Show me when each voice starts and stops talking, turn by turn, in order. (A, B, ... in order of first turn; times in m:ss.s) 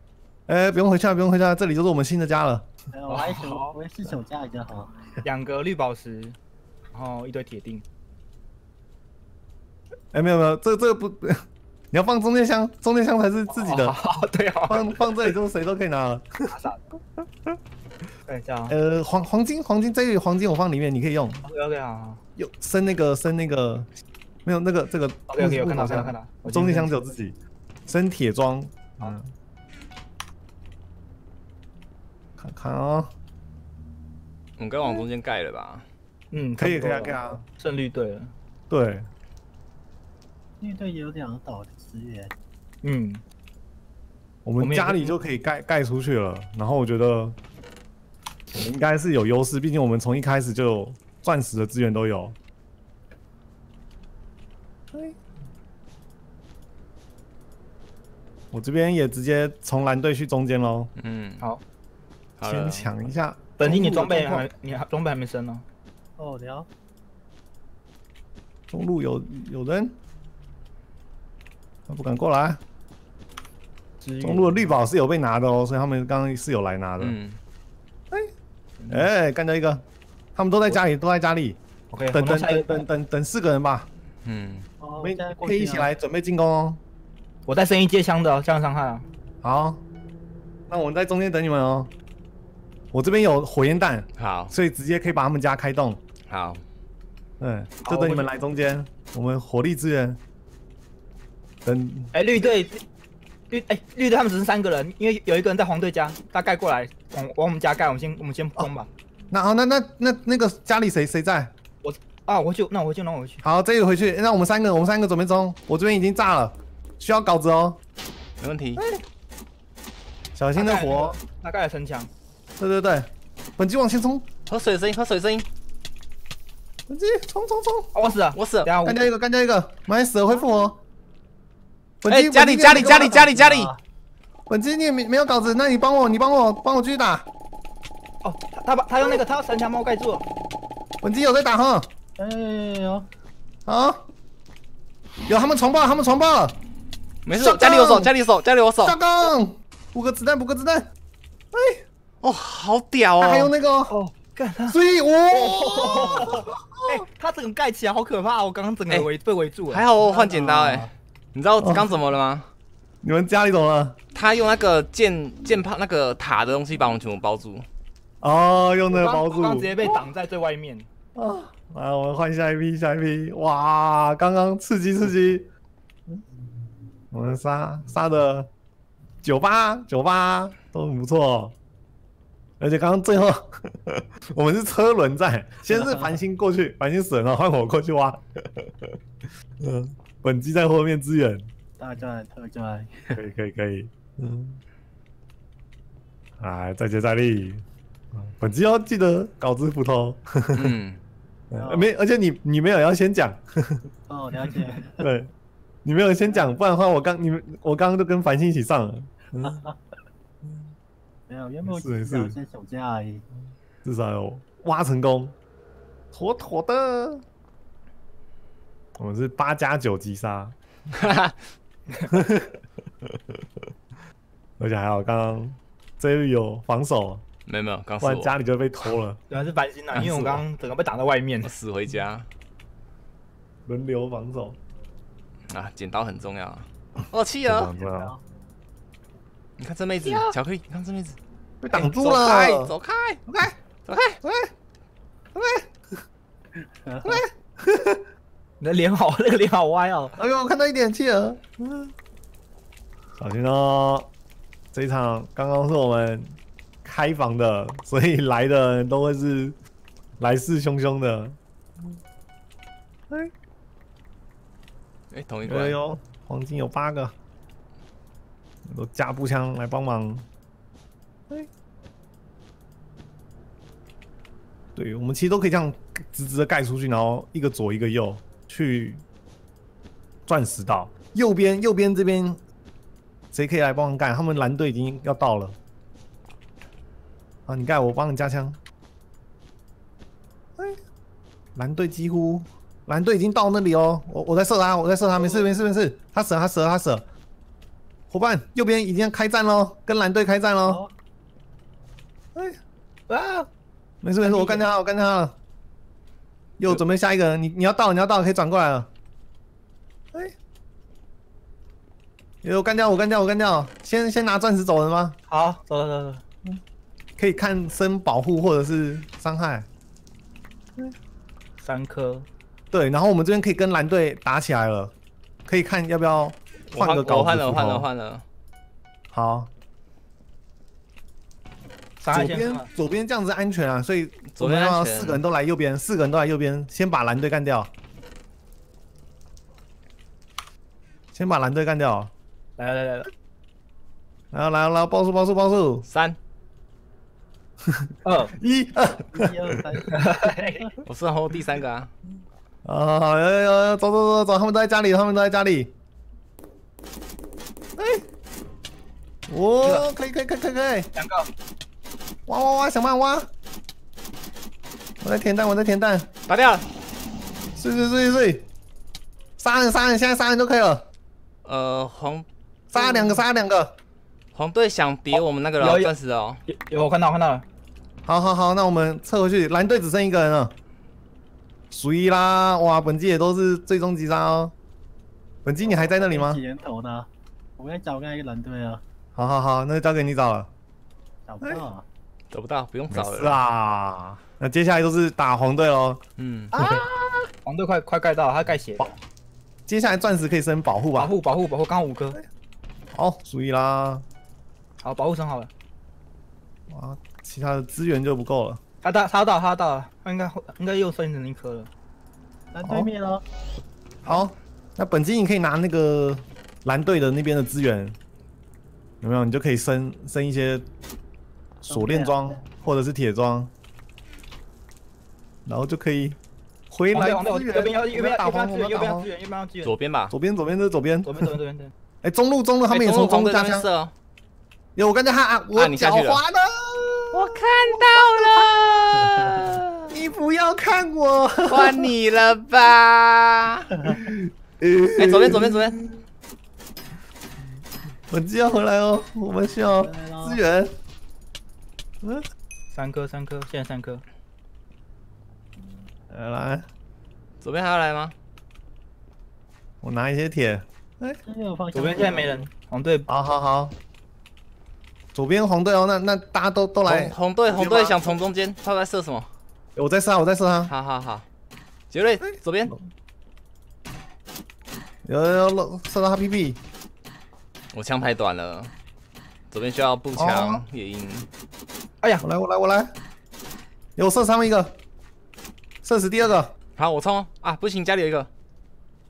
0:00.5-0:02.7 A
0:02.9-0:05.2 B
0:03.1-0:03.8 C
0:05.2-0:06.4 C
0:06.9-0:07.8 C
0:10.1-0:14.0 A
0:13.5-0:15.3 C
0:14.7-0:16.3 A
0:16.5-0:16.8 C
0:17.2-0:17.6 A
0:18.3-0:18.8 C
0:18.7-0:21.4 A
0:21.4-0:22.2 C
0:22.4-0:23.9 A
0:24.4-0:29.3 A
0:25.3-0:27.0 C
0:32.4-0:33.1 A
0:34.6-0:35.9 D
0:36.3-0:38.3 C
0:36.6-0:37.4 A
0:38.7-0:39.1 A
0:40.6-0:42.3 B
0:42.8-0:43.2 C
0:44.4-0:47.4 A
0:44.6-0:45.2 C
0:48.5-0:52.4 A
0:54.9-0:55.2 A
0:58.5-1:00.9 A
1:01.0-1:01.4 D
1:02.4-1:02.9 D
1:02.4-1:04.5 A
1:03.6-1:05.6 C
1:06.2-1:06.7 B
1:08.7-1:10.0 A
1:11.9-1:12.6 A
1:14.0-1:14.7 C
1:14.2-1:17.2 A
1:17.0-1:17.4 D
1:18.8-1:19.1 C
1:18.9-1:19.8 A
1:20.4-1:21.6 A
1:21.9-1:22.8 C
1:22.1-1:23.9 A
1:24.2-1:24.7 D
1:24.8-1:25.9 B
1:25.0-1:26.8 A
1:27.5-1:29.1 C
1:29.4-1:29.8 A
1:30.7-1:31.9 A
1:32.9-1:36.0 A
1:34.2-1:34.5 D
1:36.3-1:36.6 D
1:37.4-1:40.2 A
1:37.8-1:38.3 C
1:41.6-1:42.1 A
1:42.1-1:42.8 C
1:43.5-1:48.9 C
1:49.3-1:51.5 A
1:51.8-1:53.4 C
1:53.4-1:57.8 A
1:58.4-1:58.8 D
1:58.8-1:59.0 A
2:00.4-2:01.2 A
2:00.6-2:02.1 C
2:02.6-2:04.3 A
2:04.5-2:05.5 D
2:06.9-2:07.9 A
2:07.9-2:09.0 C
2:08.4-2:08.7 D
2:08.8-2:10.8 A
2:12.0-2:13.2 A
2:12.1-2:13.7 D
2:12.8-2:13.8 B
2:14.5-2:17.3 A
2:18.2-2:20.2 C
2:21.0-2:21.9 A
2:22.2-2:23.1 B
2:23.6-2:24.1 A
2:25.3-2:26.6 A
2:27.2-2:29.0 D
2:27.3-2:28.1 A
2:28.8-2:30.9 A
2:31.5-2:31.8 A
2:32.2-2:33.5 D
2:33.2-2:34.0 A
2:33.9-2:34.8 C
2:34.7-2:37.0 A
2:35.3-2:39.8 C
2:39.7-2:42.5 D
2:40.0-2:40.9 B
2:41.6-2:41.9 A
2:43.0-2:44.0 A
2:44.1-2:47.7 D
2:48.2-2:49.8 A
2:48.9-2:50.9 C
2:51.1-2:55.5 A
2:57.1-2:58.5 A
2:59.2-3:01.6 A
3:02.6-3:09.0 A
3:09.6-3:11.5 A
3:11.8-3:13.2 B
3:13.1-3:14.6 A
3:16.4-3:20.7 A
3:20.5-3:21.0 D
3:21.5-3:23.9 A
3:21.6-3:21.9 B
3:24.1-3:25.0 B
3:24.4-3:25.3 A
3:25.8-3:29.6 A
3:29.4-3:29.8 B
3:30.4-3:30.7 A
3:31.3-3:33.2 B
3:31.6-3:32.4 A
3:33.8-3:35.4 A
3:36.1-3:37.2 A
3:39.0-3:40.6 A
3:40.9-3:41.3 D
3:42.1-3:43.4 A
3:44.6-3:47.2 A
3:47.4-3:48.3 D
3:48.0-3:49.2 A
3:49.3-3:51.5 C
3:49.9-3:50.4 D
3:51.4-3:52.3 D
3:53.6-3:54.6 A
3:55.5-3:57.7 D
3:57.4-3:58.1 A
3:57.8-3:58.2 B
3:59.6-4:01.2 D
4:00.0-4:00.3 C
4:01.6-4:02.7 A
4:01.7-4:03.2 D
4:03.3-4:03.6 A
4:03.9-4:04.2 D
4:04.2-4:04.5 A
4:05.4-4:06.0 A
4:06.6-4:07.2 B
4:07.0-4:08.0 A
4:08.6-4:10.2 C
4:10.2-4:11.9 A
4:13.2-4:14.1 A
4:14.7-4:19.6 A
4:20.2-4:22.0 A
4:25.1-4:25.8 D
4:25.4-4:27.1 A
4:28.6-4:30.2 A
4:34.7-4:39.0 A
4:40.3-4:42.4 A
4:43.3-4:45.6 A
4:47.5-4:48.6 A
4:51.6-4:57.0 A
4:58.1-5:00.8 A
5:00.6-5:00.9 B
5:03.1-5:03.5 C
5:04.0-5:05.4 A
5:04.2-5:04.6 C
5:06.6-5:08.9 A
5:12.4-5:15.2 A
5:15.3-5:16.2 C
5:17.2-5:19.7 A
5:21.6-5:22.3 C
5:22.7-5:24.9 A
5:25.4-5:27.9 A
5:26.7-5:28.2 D
5:29.1-5:29.5 A
5:32.0-5:32.7 C
5:32.1-5:37.7 A
5:34.3-5:35.2 D
5:41.1-5:42.1 A
5:42.6-5:43.1 C
5:44.3-5:45.9 A
5:45.9-5:46.2 D
5:47.6-5:49.8 A
5:48.0-5:48.3 C
5:49.1-5:50.7 B
5:49.9-5:50.7 C
5:50.9-5:51.9 D
5:52.6-5:55.7 A
5:57.8-5:58.0 A
5:59.3-6:00.9 A
5:59.6-5:59.9 C
6:00.9-6:01.3 C
6:02.3-6:03.3 A
6:05.0-6:06.1 A
6:06.3-6:06.6 D
6:07.6-6:08.5 A
6:09.4-6:10.9 A
6:11.4-6:12.3 D
6:12.7-6:13.7 A
6:12.8-6:13.2 C
6:14.3-6:16.4 D
6:15.1-6:15.9 C
6:16.5-6:17.4 C
6:18.0-6:20.5 A
6:21.7-6:24.5 A
6:25.4-6:26.4 A
6:25.6-6:28.8 B
6:29.2-6:30.5 A
6:31.3-6:31.8 B
6:32.3-6:33.4 D
6:32.9-6:36.0 A
6:36.2-6:36.5 D
6:36.5-6:36.9 C
6:36.6-6:36.9 A
6:37.4-6:38.9 C
6:39.7-6:41.1 A
6:41.0-6:42.2 C
6:42.9-6:44.0 A
6:44.8-6:45.5 C
6:46.7-6:48.6 A
6:48.8-6:51.7 C
6:52.5-6:53.2 B
6:52.6-6:52.9 A
6:54.1-6:58.0 A
6:59.0-7:00.6 A
7:01.6-7:03.5 A
7:01.7-7:02.3 B
7:05.4-7:06.2 A
7:06.7-7:09.1 A
7:06.9-7:09.7 C
7:09.6-7:10.1 D
7:10.1-7:11.3 A
7:11.0-7:11.7 C
7:12.0-7:13.7 A
7:12.7-7:13.9 D
7:14.8-7:18.5 A
7:15.6-7:16.2 D
7:17.1-7:19.9 D
7:19.9-7:21.9 A
7:21.5-7:23.9 D
7:23.9-7:26.0 A
7:25.0-7:25.8 D
7:28.1-7:30.7 A
7:29.8-7:30.4 B
7:32.7-7:34.0 C
7:36.1-7:36.7 A
7:37.4-7:38.1 D
7:39.8-7:41.2 A
7:41.2-7:42.4 B
7:41.7-7:43.1 C
7:43.1-7:43.7 A
7:45.1-7:48.2 A
7:46.9-7:49.3 D
7:49.7-7:50.7 A
7:50.7-7:51.2 D
7:51.9-7:52.8 D
7:55.0-7:56.6 A
7:57.7-7:58.7 D
7:59.5-8:01.3 D
8:00.1-8:00.6 A
8:02.2-8:02.9 A
8:04.0-8:04.8 A
8:05.8-8:06.5 A
8:06.8-8:08.3 D